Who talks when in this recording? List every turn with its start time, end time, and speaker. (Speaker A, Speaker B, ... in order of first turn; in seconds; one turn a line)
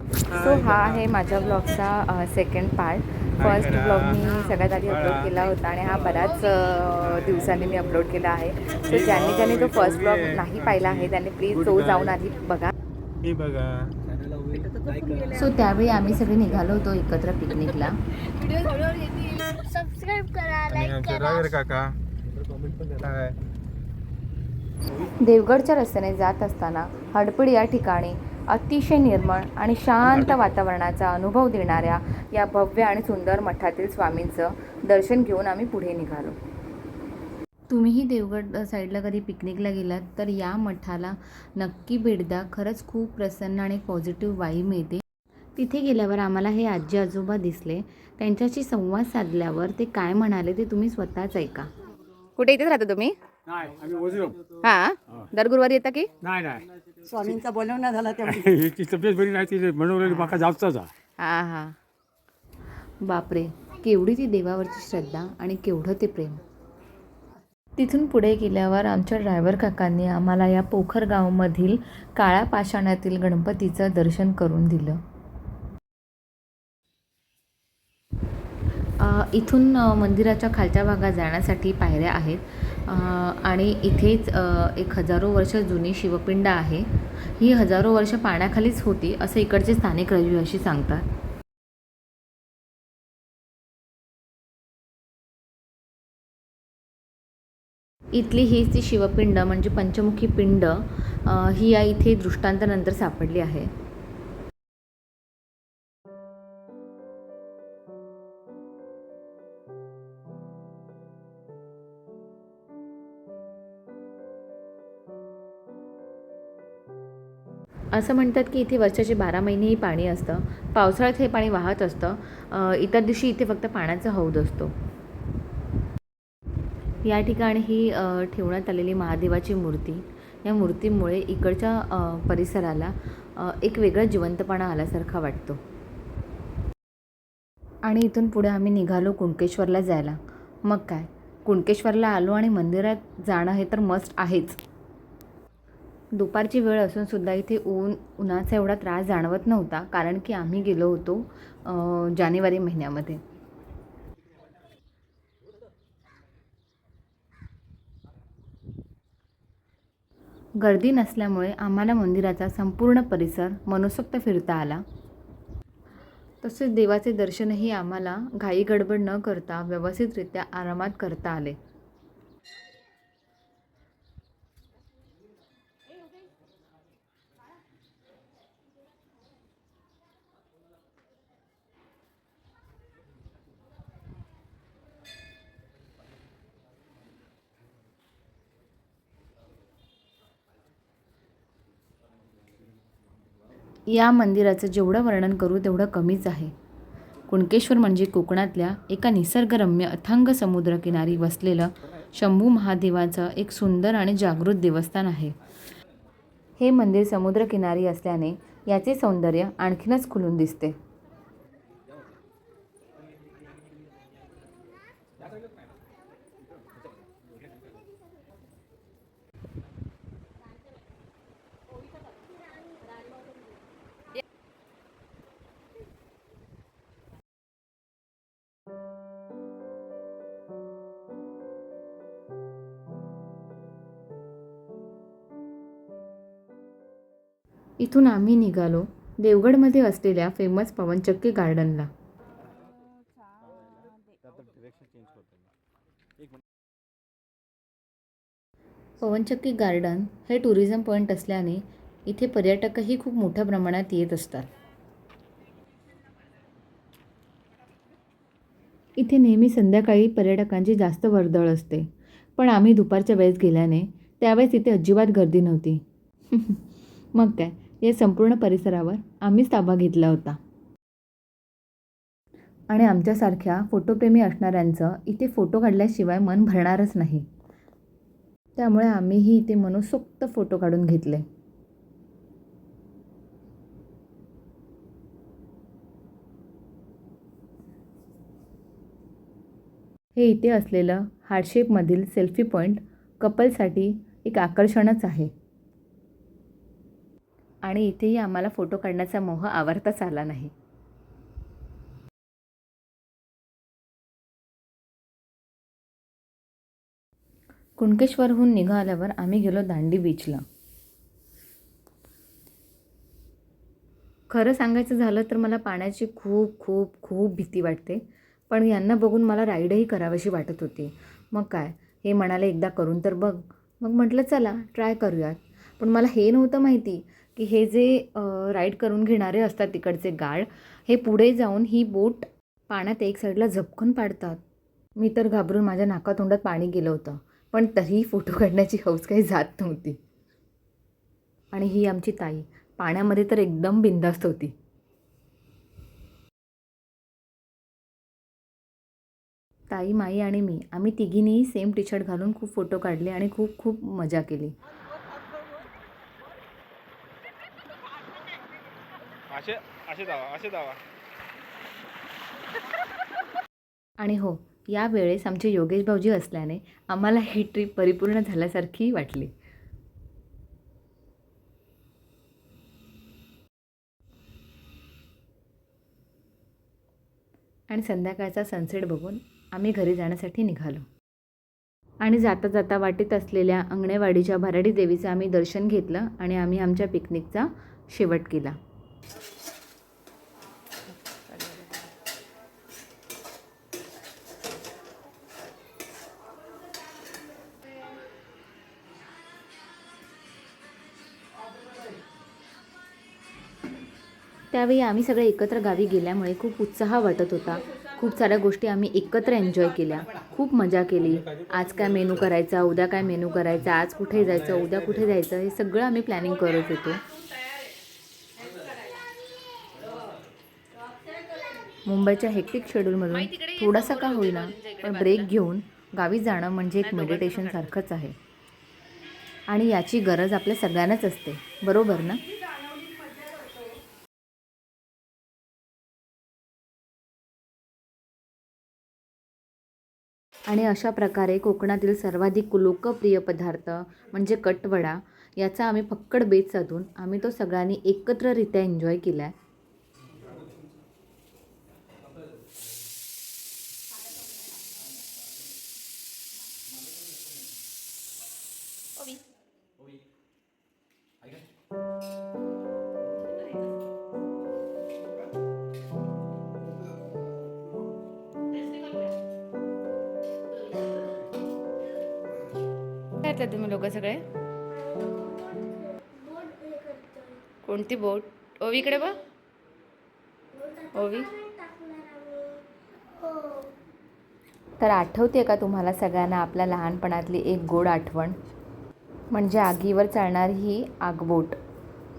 Speaker A: 0.3-1.0
Speaker B: 0.3-12.7
Speaker A: 3.4-4.2
Speaker A: 4.8-5.5
Speaker A: 7.1-7.6
Speaker A: 8.9-12.1
Speaker A: 13.2-13.9
Speaker C: 14.4-15.3
Speaker B: 15.3-18.0
Speaker D: 19.6-21.3
Speaker A: 20.7-21.9
Speaker A: 22.5-23.4
Speaker B: 25.0-36.4
Speaker B: 37.7-45.0
Speaker B: 45.5-51.7
Speaker B: 52.4-53.2
Speaker E: 53.5-54.4
Speaker B: 54.6-56.1
Speaker E: 56.2-56.7
Speaker C: 57.1-58.5
Speaker E: 58.2-60.9
Speaker B: 61.2-61.8
Speaker B: 63.0-66.4
Speaker B: 67.8-75.0
Speaker B: 79.0-91.0
Speaker B: 98.1-103.7
Speaker B: 117.9-124.7
Speaker B: 127.0-135.6
Speaker B: 137.8-144.6
Speaker B: 146.1-153.2
Speaker B: 160.6-164.8
Speaker B: 166.4-171.6
Speaker B: 193.9-196.5
Speaker B: 197.3-205.3
Speaker B: 206.6-210.8
Speaker B: 237.8-241.9
Speaker B: 249.0-254.5
Speaker B: 258.9-270.4
Speaker B: 272.7-277.3
Speaker B: 278.6-281.2
Speaker B: 290.1-295.3
Speaker B: 297.6-300.5
Speaker B: 307.8-310.4
Speaker B: 314.3-334.4
Speaker B: 335.0-340.0
Speaker B: 341.5-344.5
Speaker B: 349.7-354.5
Speaker A: 359.3-360.8
Speaker B: 364.0-369.3
Speaker B: 377.7-380.9
Speaker B: 382.0-388.6
Speaker B: 404.5-417.0
Speaker B: 421.8-428.1
Speaker B: 429.5-432.2
Speaker B: 440.5-449.3
Speaker B: 473.2-474.2
Speaker D: 474.7-477.4
Speaker B: 477.6-479.2
Speaker D: 480.6-480.9
Speaker B: 480.9-481.4
Speaker D: 481.4-483.7
Speaker B: 484.8-488.4
Speaker B: 489.3-491.6